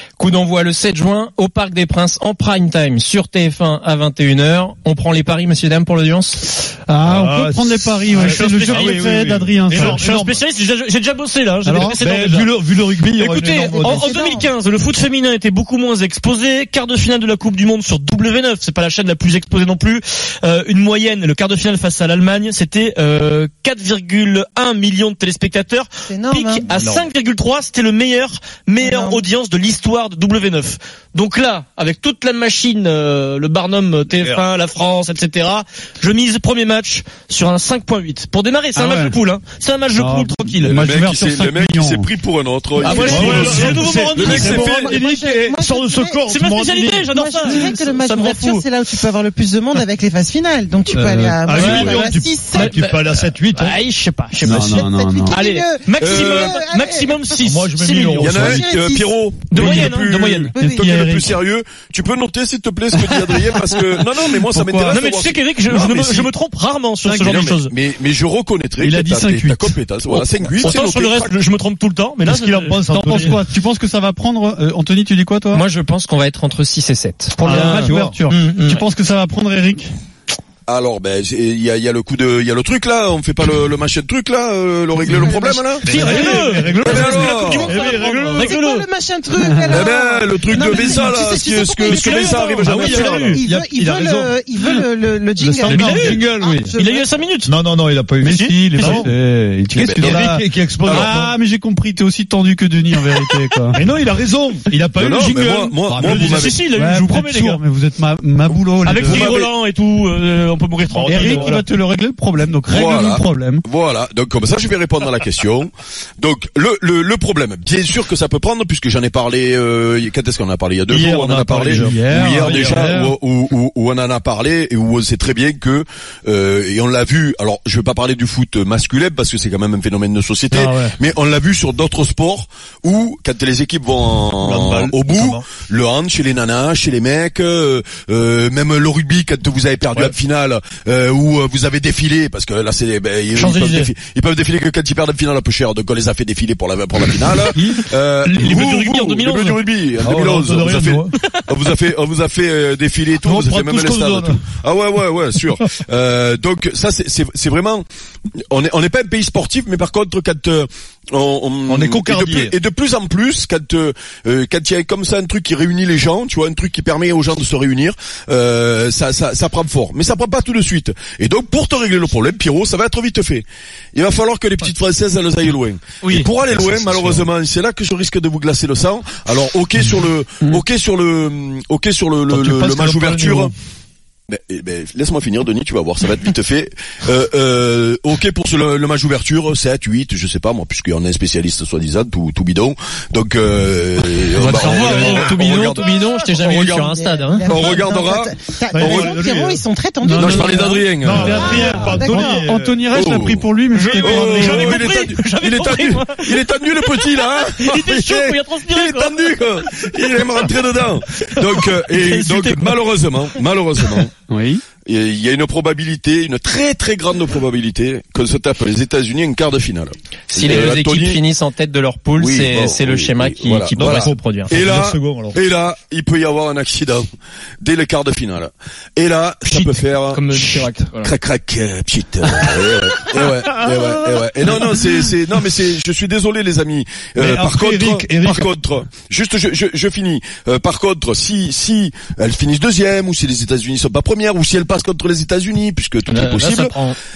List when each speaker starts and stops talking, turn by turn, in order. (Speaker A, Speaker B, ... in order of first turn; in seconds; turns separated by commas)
Speaker A: 0.2-6.4, Speaker B: 6.9-10.3, Speaker C: 7.0-10.4, Speaker D: 8.1-9.1, Speaker D: 9.7-12.5, Speaker B: 11.7-12.0, Speaker C: 11.9-14.1, Speaker D: 13.1-40.7, Speaker E: 13.5-14.5, Speaker E: 26.1-26.7, Speaker C: 26.7-27.1, Speaker E: 28.8-29.2, Speaker C: 34.1-34.5, Speaker B: 38.8-39.1, Speaker B: 40.0-42.1, Speaker F: 40.7-44.9, Speaker D: 42.8-44.8, Speaker C: 42.8-47.1, Speaker E: 42.9-46.2, Speaker D: 46.3-48.6, Speaker E: 47.1-52.8, Speaker C: 50.9-53.8, Speaker D: 51.5-52.0, Speaker D: 52.5-58.3, Speaker B: 54.4-55.4, Speaker E: 54.5-59.7, Speaker F: 56.0-56.6, Speaker C: 57.5-58.6, Speaker F: 58.2-66.3, Speaker D: 59.5-60.5, Speaker B: 59.6-60.0, Speaker B: 60.5-61.4, Speaker E: 60.5-60.9, Speaker B: 64.5-65.0, Speaker D: 64.9-67.7, Speaker F: 67.2-71.3, Speaker B: 68.8-70.5, Speaker D: 70.6-73.4, Speaker C: 72.2-73.4, Speaker B: 72.9-75.6, Speaker A: 75.5-77.4, Speaker B: 77.4-79.9, Speaker D: 77.5-78.8, Speaker C: 77.5-78.2, Speaker F: 80.7-87.8, Speaker E: 85.2-85.8, Speaker C: 85.8-88.5, Speaker D: 85.8-88.9, Speaker E: 87.9-97.1, Speaker F: 89.7-93.3, Speaker D: 91.9-93.4, Speaker C: 92.6-94.3, Speaker C: 95.4-96.7, Speaker B: 95.7-95.9, Speaker D: 95.7-97.5, Speaker C: 97.5-99.1, Speaker B: 98.2-103.8, Speaker D: 98.3-99.0, Speaker C: 99.7-101.3, Speaker F: 100.0-100.2, Speaker F: 100.8-101.1, Speaker C: 103.8-106.5, Speaker F: 105.0-106.6, Speaker D: 106.0-107.6, Speaker B: 106.8-109.3, Speaker D: 108.8-111.6, Speaker C: 109.0-109.3, Speaker F: 109.1-109.5, Speaker C: 110.9-111.6, Speaker B: 111.1-113.6, Speaker F: 112.7-157.9, Speaker C: 120.9-122.9, Speaker B: 120.9-123.1, Speaker B: 130.5-130.9, Speaker C: 134.4-135.4, Speaker D: 143.4-143.9, Speaker D: 148.3-149.6, Speaker C: 150.0-151.1, Speaker C: 153.2-154.4, Speaker F: 158.5-183.5, Speaker C: 161.7-162.5, Speaker D: 176.0-176.3, Speaker C: 176.6-177.2, Speaker C: 182.3-183.5, Speaker F: 184.3-196.9, Speaker D: 194.4-195.4, Speaker A: 194.6-197.5, Speaker E: 196.7-202.5, Speaker F: 197.5-199.2, Speaker C: 198.7-199.6, Speaker B: 200.0-204.8, Speaker F: 200.2-201.7, Speaker C: 201.0-202.8, Speaker F: 202.9-203.4, Speaker D: 203.7-206.4, Speaker F: 204.0-214.1, Speaker D: 207.0-209.2, Speaker D: 211.9-212.8, Speaker B: 214.3-214.6, Speaker F: 214.8-221.2, Speaker A: 220.3-224.5, Speaker F: 222.2-227.1, Speaker C: 223.8-225.4, Speaker F: 227.6-246.8, Speaker D: 229.5-231.1, Speaker C: 237.2-238.5, Speaker A: 246.1-246.7, Speaker D: 246.6-246.9